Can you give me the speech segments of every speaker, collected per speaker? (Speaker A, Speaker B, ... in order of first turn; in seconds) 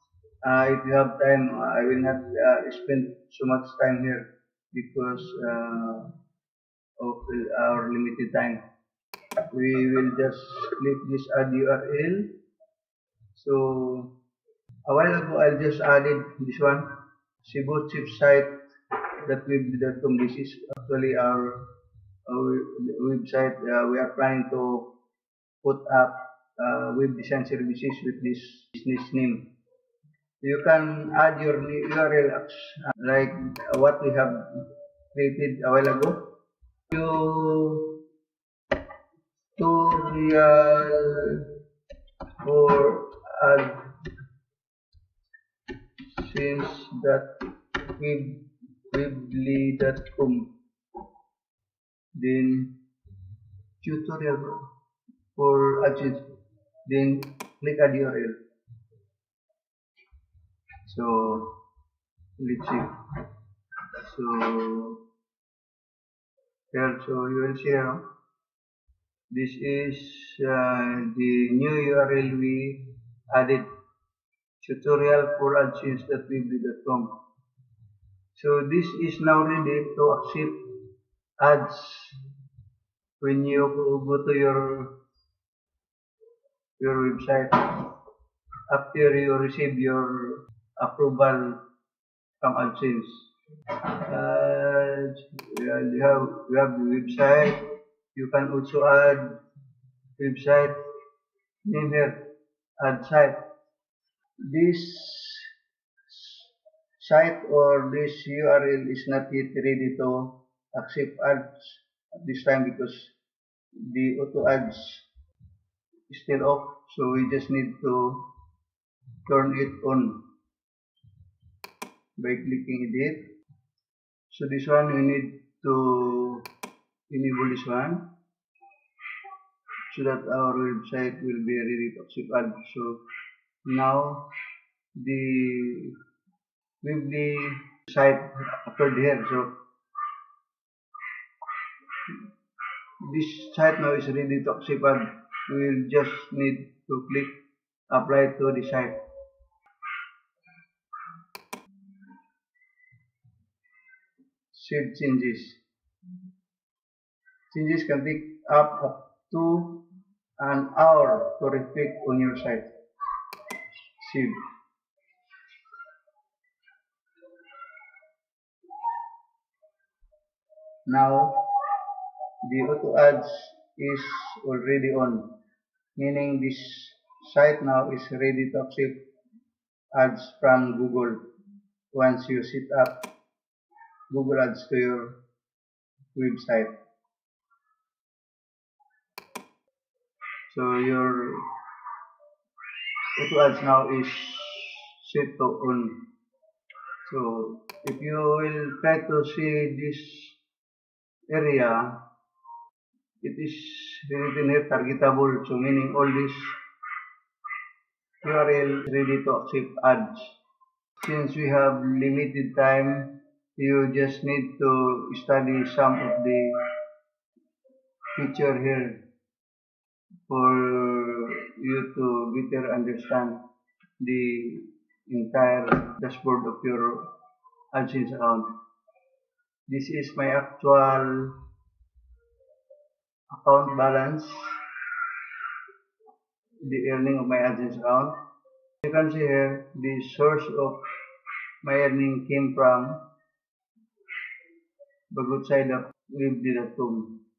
Speaker A: 0.4-6.1, 7.0-8.6, 9.5-12.3, 13.3-14.1, 14.9-16.9, 17.4-18.5, 19.2-21.6, 22.3-24.9, 25.6-29.5, 30.4-36.3, 36.9-38.0, 39.6-41.6, 42.4-43.8, 46.1-47.3, 47.8-50.5, 52.1-52.7, 53.8-54.7, 55.4-56.3, 56.9-58.4, 60.8-61.6, 62.4-63.2, 63.9-65.0, 66.7-68.0, 69.3-73.7, 74.6-77.1, 78.3-80.8, 81.4-82.2, 83.2-84.9, 86.8-87.9, 88.7-91.6, 92.4-99.3, 100.2-100.8, 101.6-102.2, 102.8-103.4, 104.4-105.5, 106.1-113.1, 113.8-115.1, 116.1-118.3, 119.3-120.2, 122.2-123.3, 124.3-126.5, 127.1-128.1, 129.9-133.0, 133.7-134.3, 135.0-135.9, 136.8-139.5, 143.0-147.3, 147.9-149.0, 154.5-155.6, 157.5-159.8, 160.4-162.7, 164.0-164.4, 170.9-171.8, 172.4-175.3, 176.0-179.0, 179.9-181.2, 181.9-182.9, 184.1-185.2, 186.2-186.7, 190.5-191.5, 193.2-196.1, 197.1-200.4, 201.3-202.0, 203.2-206.6, 208.2-210.4, 211.0-216.6, 218.2-219.0, 220.3-223.4, 224.0-227.1, 227.7-228.6, 229.7-231.3, 233.3-234.6, 236.6-238.1, 238.8-240.8, 241.6-243.0, 245.1-247.2